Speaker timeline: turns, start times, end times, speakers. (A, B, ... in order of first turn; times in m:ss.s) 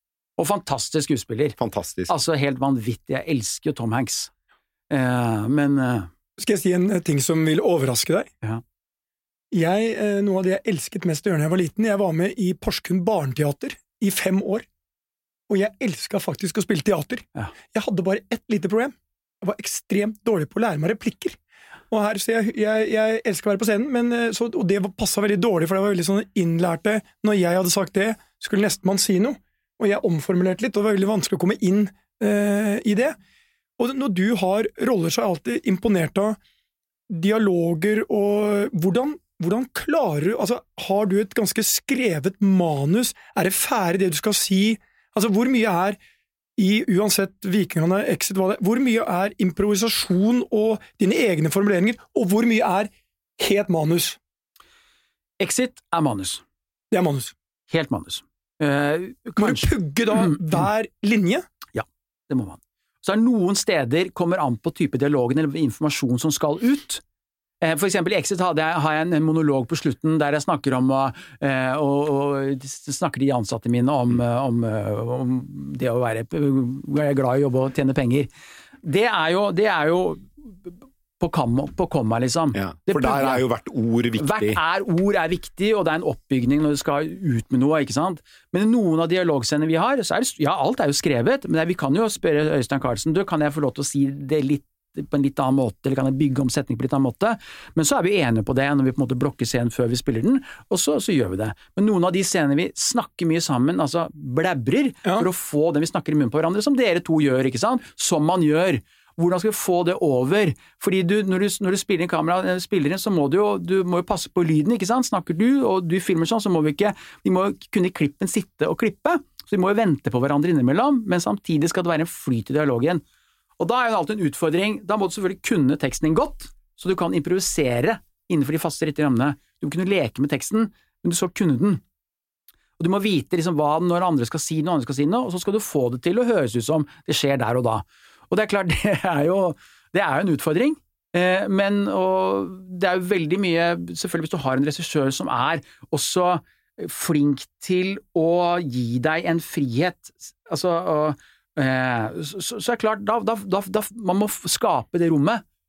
0:00.4-0:04.3 A
0:01.6-0:02.1 B
0:04.9-0:06.1 A
0:06.4-0:08.3 C
0:09.5-0:14.6 C
0:15.5-0:21.4 C
0:21.9-0:33.2 C
0:33.8-0:36.4 C
0:37.1-0:46.0 C
0:46.6-0:54.2 C
0:55.4-0:56.4 A
0:56.9-0:57.3 C
0:57.7-1:00.3 A
0:59.4-1:01.4 C
1:01.7-1:07.0 A
1:07.6-1:18.3 A
1:18.8-1:23.4 A
1:22.5-1:24.6 B
1:24.2-2:03.0 A
2:03.6-2:11.8 A
2:12.8-2:35.4 A